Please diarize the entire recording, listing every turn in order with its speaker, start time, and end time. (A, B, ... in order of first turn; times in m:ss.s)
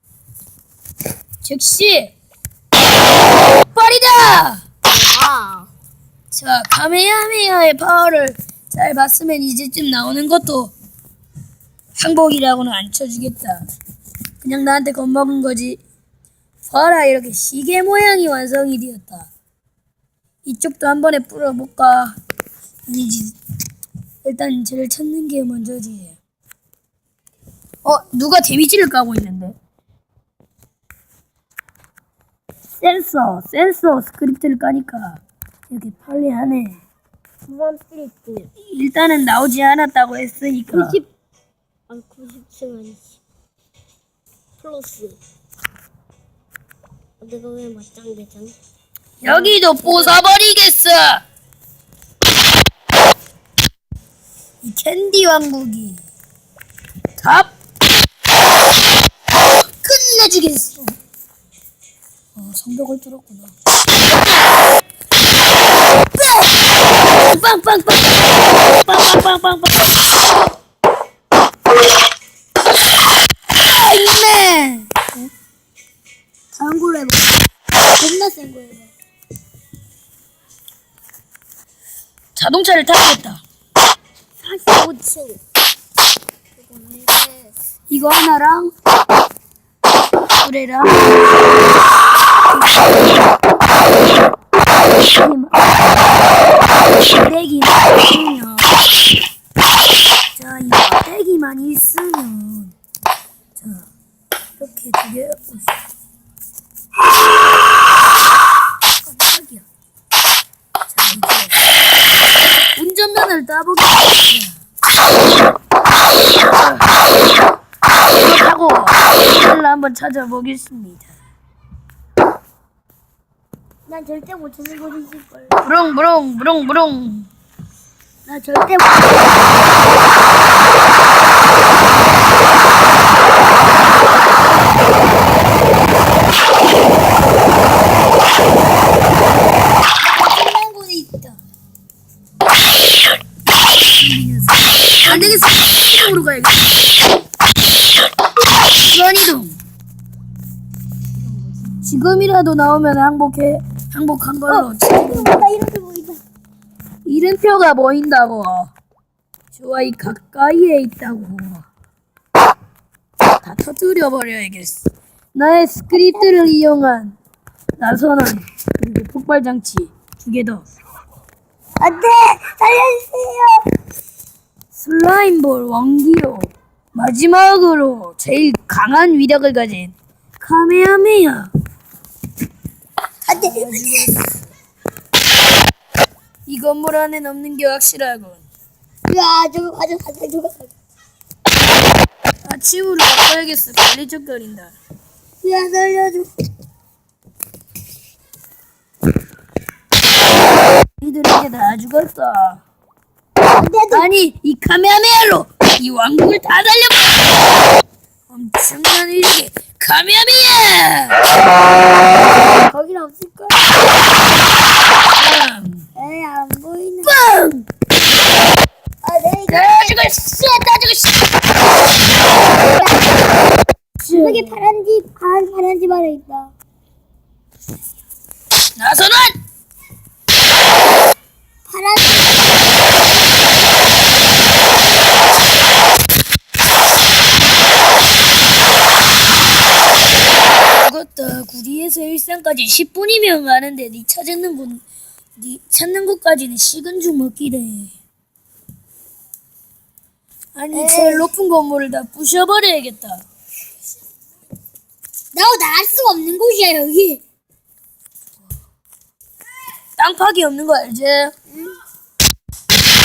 0:01.4-0:02.1 A
0:03.7-0:04.6 A
0:04.8-0:05.7 B
0:06.3-0:10.7 A
0:12.0-0:13.6 A
0:14.4-0:15.8 A
0:16.6-0:19.3 A
0:20.4-0:22.1 A
0:22.9-0:23.4 A
0:24.2-0:26.2 A
0:27.8-0:29.6 A
0:32.8-0:36.8 A
0:37.5-0:38.5 B
0:38.7-0:41.0 A
0:40.7-0:41.1 B
0:41.9-0:43.2 B
0:44.6-0:45.2 B
0:47.2-0:48.5 B
0:49.2-0:50.2 B
0:49.2-0:51.2 A
0:54.6-0:56.0 A
0:57.2-0:57.5 A
0:59.8-1:00.9 A
1:02.4-1:03.5 A
1:06.2-1:06.5 A
1:07.2-1:10.0 A
1:13.5-1:15.1 A
1:16.5-1:17.2 B
1:18.0-1:18.9 B
1:22.4-1:23.4 A
1:24.4-1:25.4 B
1:26.6-1:27.5 B
1:27.9-1:28.7 A
1:30.4-1:31.0 A
1:35.2-1:35.7 A
1:37.1-1:38.7 A
1:40.4-1:42.8 A
1:43.6-1:43.9 A
1:44.6-1:45.7 A
1:49.0-1:49.6 A
1:50.9-1:51.6 A
1:52.8-1:54.6 A
1:56.5-1:56.9 A
1:58.1-2:01.1 A
2:03.9-2:05.6 B
2:05.6-2:07.3 A
2:08.2-2:09.3 B
2:20.0-2:21.4 B
2:23.8-2:26.7 A
2:25.1-2:25.4 B
2:28.7-2:29.6 A
2:31.8-2:35.4 A
2:34.5-2:36.2 B
2:37.0-2:38.7 A
2:39.5-2:41.7 A
2:43.4-2:47.2 A
2:45.9-2:46.3 B
2:47.8-2:50.6 A
2:51.8-2:53.7 B
2:54.7-3:01.5 A
3:03.3-3:04.2 B
3:03.4-3:04.2 A
3:06.5-3:08.4 A
3:09.1-3:10.7 B
3:12.4-3:14.7 A
3:15.4-3:16.3 B
3:21.0-3:22.6 A
3:23.5-3:24.0 B
3:23.9-3:27.3 A
3:28.3-3:31.2 A
3:32.5-3:33.7 B
3:35.1-3:35.9 A
3:36.0-3:37.1 B
3:37.0-3:37.6 A
3:39.0-3:40.0 B
3:39.5-3:41.2 A
3:42.6-3:43.2 B
3:44.0-3:44.6 A
3:44.1-3:46.5 B
3:48.8-3:49.4 A
3:51.7-3:53.5 B
4:00.8-4:04.8 A
4:05.4-4:07.9 A
4:10.5-4:13.2 A
4:10.7-4:11.3 B
4:15.3-4:17.2 B
4:20.0-4:21.3 A
4:21.5-4:21.8 B